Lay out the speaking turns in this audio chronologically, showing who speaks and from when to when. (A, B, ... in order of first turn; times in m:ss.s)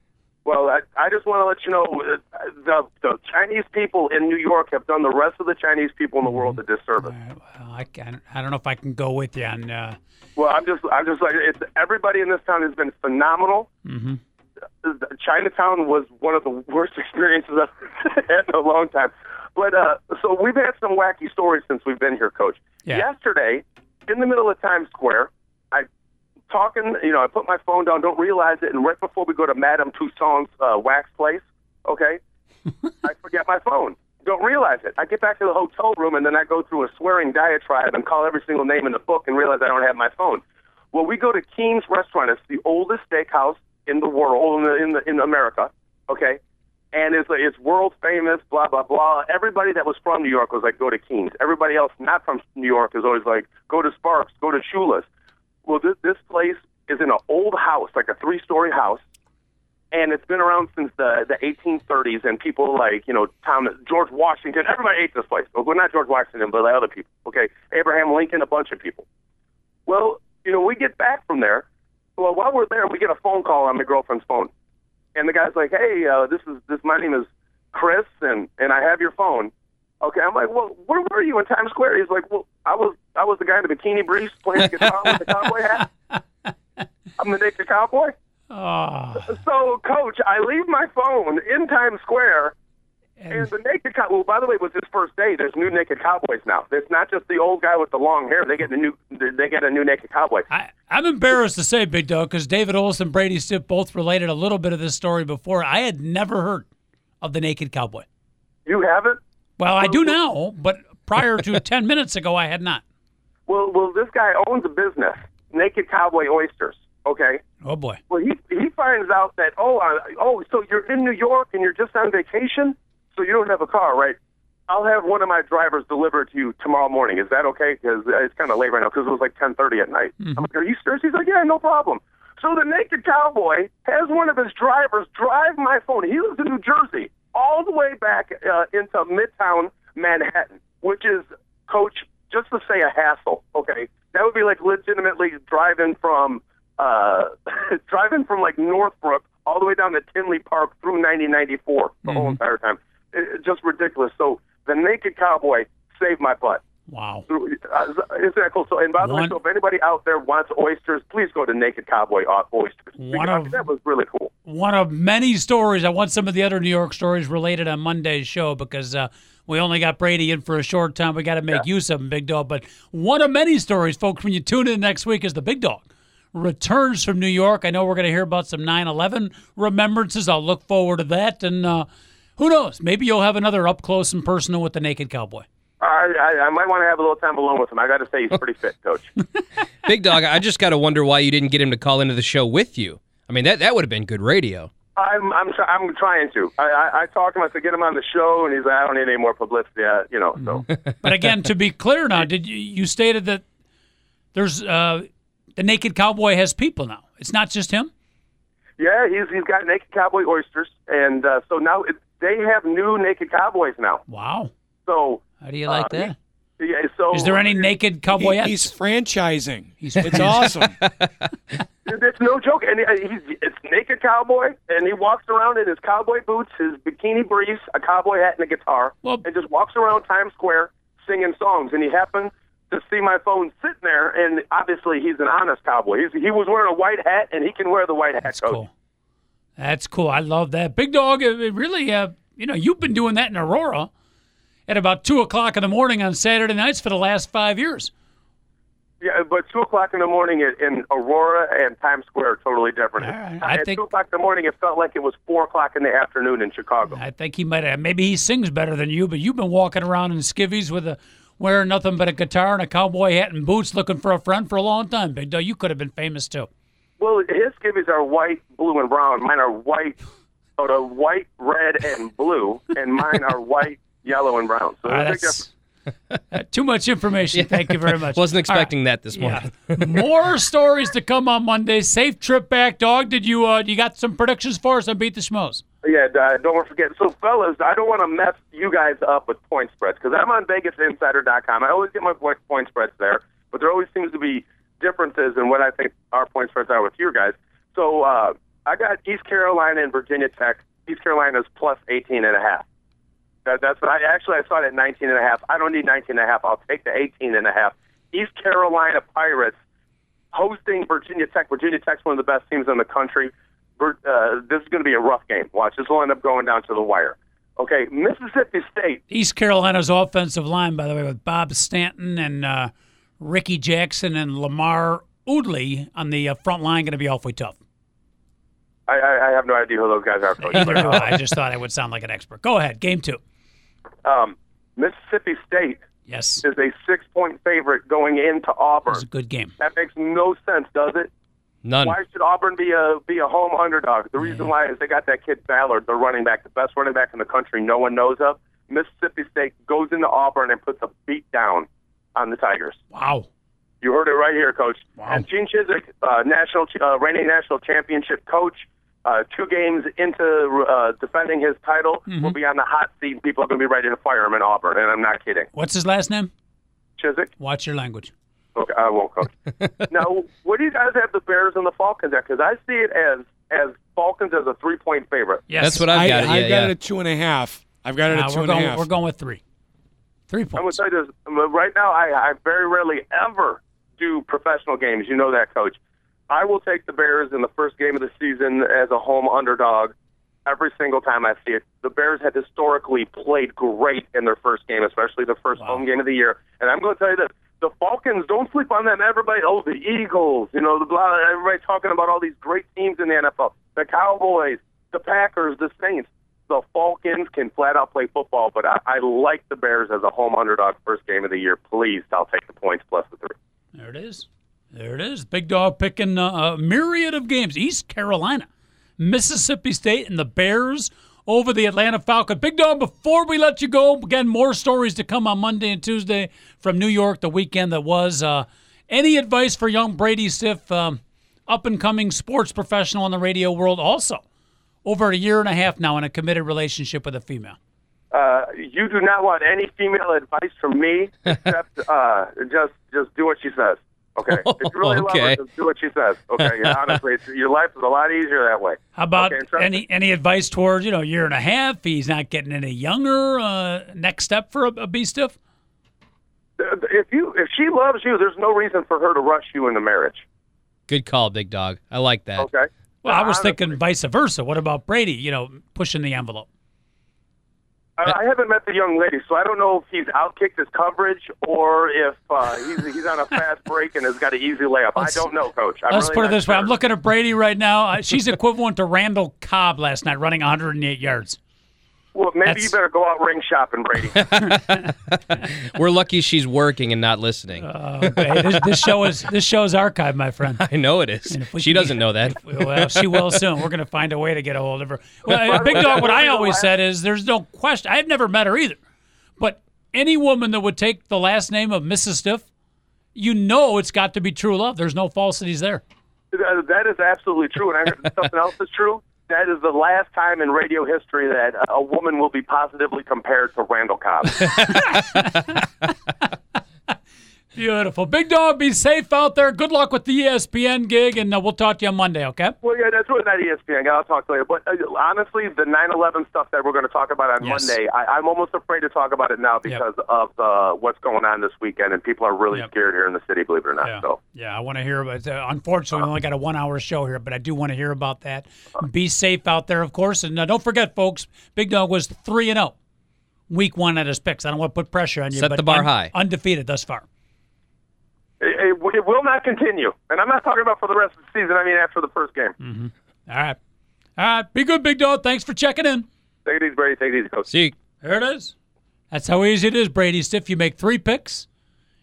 0:00.4-0:07.1 A
0:06.3-0:10.0 B
0:10.4-0:13.7 A
0:13.9-0:14.2 B
0:14.8-0:25.9 A
0:26.5-0:32.2 A
0:33.0-0:40.4 A
0:40.9-0:46.4 A
0:46.9-0:55.1 A
0:55.7-0:59.0 A
0:59.9-1:09.0 A
1:09.9-1:11.6 A
1:12.2-1:14.5 A
1:15.2-1:25.9 A
1:27.2-1:28.1 A
1:28.5-1:29.4 B
1:29.2-1:32.6 A
1:33.2-1:33.5 B
1:33.3-1:40.5 A
1:40.5-1:46.7 B
1:47.2-1:48.1 B
1:48.7-1:49.2 A
1:49.6-1:52.8 B
1:49.8-1:50.1 A
1:53.5-1:57.4 A
1:57.6-1:58.0 B
1:58.1-2:04.2 A
2:04.7-2:36.6 A
2:32.1-2:32.4 B
2:36.9-2:37.2 B
2:37.3-2:44.3 A
2:39.0-2:39.4 B
2:43.0-2:43.6 B
2:44.4-3:05.5 B
3:05.8-3:09.1 A
3:09.8-3:14.7 C
3:15.0-3:20.6 A
3:20.4-3:23.4 B
3:24.3-3:27.9 B
3:28.8-3:34.0 A
3:34.1-3:34.5 B
3:34.9-3:37.7 A
3:35.4-3:36.2 B
3:37.1-3:38.7 B
3:38.2-3:40.8 D
3:39.8-3:40.6 B
3:40.3-3:41.3 C
3:41.9-3:58.6 A
3:58.2-3:58.7 B
3:59.6-4:03.9 B
4:04.7-4:07.9 B
4:09.0-4:17.0 A
4:13.0-4:13.8 B
4:17.0-4:26.5 B
4:27.0-4:30.0 A
4:30.6-4:35.4 A
4:34.9-4:35.5 B
4:36.3-4:45.6 B
4:37.3-4:40.0 C
4:45.8-5:02.6 A
5:03.5-5:09.6 A
5:10.3-5:19.0 A
5:19.1-5:27.6 B
5:28.9-5:31.1 A
5:30.4-5:33.2 B
5:34.0-5:35.8 A
5:36.1-5:36.4 B
5:36.4-5:39.0 A
5:38.9-5:39.5 B
5:39.6-5:41.1 A
5:41.6-5:42.0 C
5:41.8-5:52.8 A
5:44.2-5:44.5 B
5:52.9-5:53.3 B
5:53.8-6:05.5 A
5:55.0-5:55.2 B
6:02.1-6:02.4 B
6:05.5-6:06.3 B
6:07.0-6:07.3 A
6:07.4-6:08.1 B
6:08.6-6:09.3 A
6:09.9-6:15.5 A
6:15.5-6:15.9 B
6:15.6-6:16.7 C
6:15.9-6:18.9 D
6:18.1-6:19.4 B
6:20.3-6:20.8 B
6:20.6-6:25.8 A
6:26.3-6:29.9 A
6:30.5-6:53.4 A
6:35.6-6:35.8 B
6:53.8-6:58.5 B
6:59.0-7:14.2 B
7:14.8-7:17.6 B
7:18.1-7:29.8 A
7:24.3-7:25.4 C
7:26.4-7:27.0 C
7:29.0-7:35.4 B
7:36.6-7:40.2 A
7:40.9-7:42.5 C
7:42.4-7:43.8 A
7:43.0-7:46.5 B
7:48.0-7:56.8 A
7:55.9-8:01.4 B
8:02.2-8:04.6 A
8:04.4-8:04.8 B
8:05.1-8:08.6 C
8:07.6-8:10.6 B
8:10.6-8:13.4 C
8:11.3-8:18.8 B
8:15.3-8:16.7 A
8:19.4-8:22.5 B
8:23.2-8:25.8 B
8:26.3-8:34.7 A
8:34.4-8:35.5 B
8:37.6-8:42.6 B
8:42.6-8:54.2 A
8:47.4-8:47.8 B
8:53.8-9:02.8 B
9:03.5-9:07.1 B
9:05.4-9:06.1 C
9:08.4-9:12.6 A
9:12.6-9:13.6 B
9:14.2-9:16.1 B
9:16.5-9:17.5 A
9:17.5-9:17.8 C
9:18.0-9:18.5 B
9:19.1-9:21.5 B